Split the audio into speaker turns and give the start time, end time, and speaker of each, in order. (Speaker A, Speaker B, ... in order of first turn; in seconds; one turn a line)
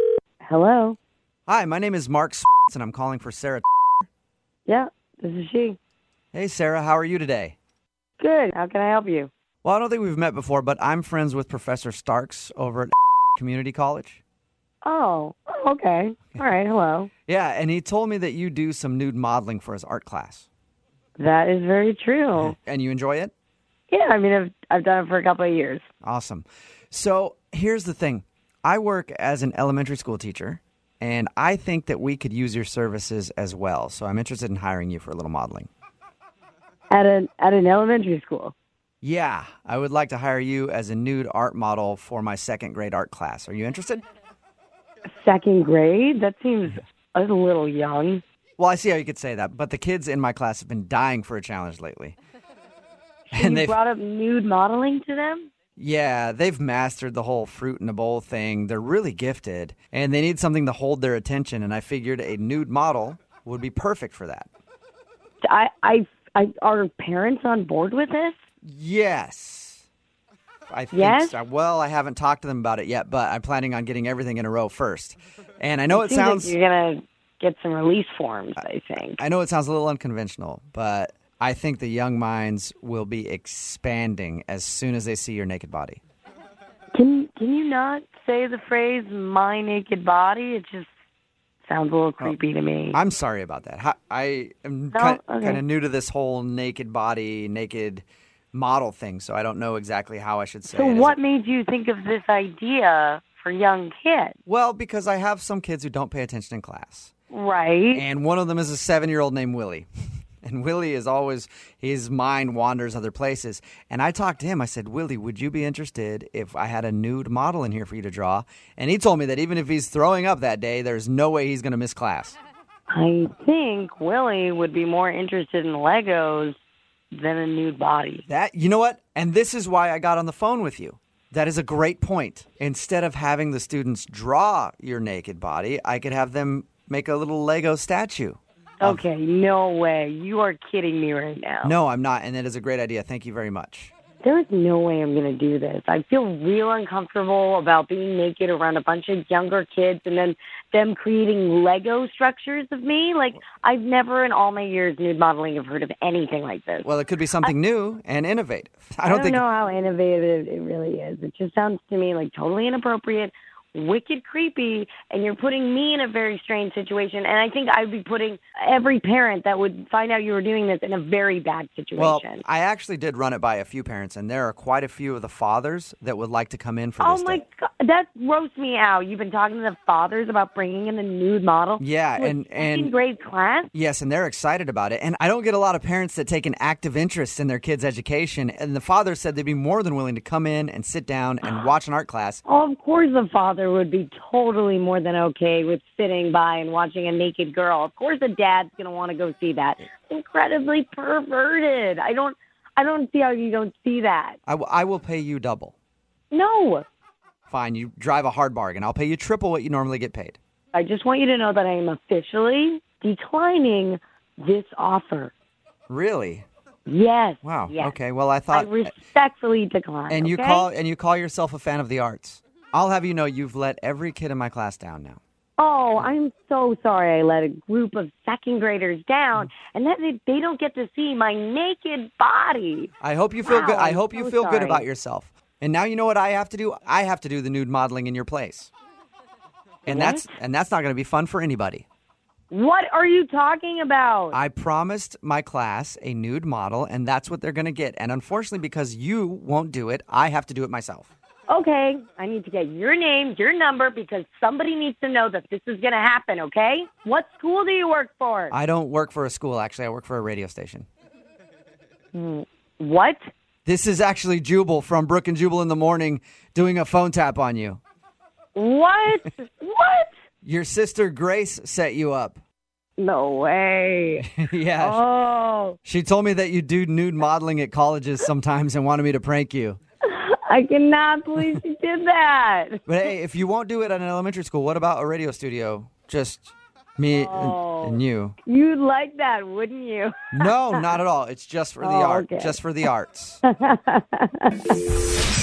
Speaker A: 0.4-1.0
Speaker B: 1.5-4.0
Speaker A: 4.7-5.8
Speaker B: 6.3-7.5
Speaker A: 8.2-9.3
Speaker B: 9.6-14.2
Speaker A: 14.8-17.1
Speaker B: 17.3-20.5
Speaker A: 21.2-22.6
Speaker B: 22.3-23.3
Speaker A: 23.9-25.9
Speaker B: 26.0-35.7
Speaker A: 36.9-38.5
Speaker B: 39.0-44.0
Speaker A: 45.1-48.2
Speaker B: 48.6-52.2
Speaker A: 53.3-55.5
Speaker B: 53.3-53.8
Speaker B: 55.8-64.5
Speaker A: 65.4-68.4
Speaker B: 68.6-69.8
Speaker B: 70.7-76.5
Speaker A: 70.9-71.4
Speaker A: 75.9-79.2
Speaker B: 79.2-86.0
Speaker A: 86.9-90.9
Speaker A: 91.7-93.0
Speaker B: 92.9-101.2
Speaker A: 94.9-95.6
Speaker A: 100.7-104.4
Speaker B: 104.5-107.1
Speaker A: 107.3-108.0
Speaker B: 107.9-109.9
Speaker B: 110.4-122.4
Speaker A: 122.9-126.6
Speaker A: 127.1-128.2
Speaker B: 128.3-139.1
Speaker A: 138.8-141.8
Speaker B: 141.6-143.9
Speaker A: 144.2-156.9
Speaker B: 156.8-159.4
Speaker A: 159.1-172.4
Speaker B: 172.0-177.4
Speaker A: 177.0-183.7
Speaker B: 181.8-182.9
Speaker B: 183.7-192.4
Speaker A: 192.5-204.4
Speaker B: 204.5-205.8
Speaker A: 206.3-206.9
Speaker B: 207.5-210.4
Speaker A: 210.7-215.3
Speaker B: 215.9-216.5
Speaker A: 216.9-217.9
Speaker B: 217.4-218.9
Speaker A: 218.5-220.7
Speaker B: 220.1-225.2
Speaker A: 225.6-232.9
Speaker B: 233.0-238.7
Speaker A: 233.4-234.9
Speaker A: 239.9-240.3
Speaker B: 239.9-241.8
Speaker A: 242.5-244.4
Speaker B: 244.3-251.1
Speaker A: 251.5-258.6
Speaker B: 258.5-260.9
Speaker A: 262.1-263.2
Speaker B: 263.7-267.8
Speaker A: 268.6-270.1
Speaker B: 270.4-272.4
Speaker A: 273.0-274.3
Speaker B: 274.2-275.0
Speaker A: 274.8-275.8
Speaker B: 275.9-279.8
Speaker A: 280.1-282.8
Speaker B: 282.9-288.4
Speaker A: 287.1-290.9
Speaker B: 290.3-293.4
Speaker A: 291.8-292.6
Speaker A: 293.4-294.8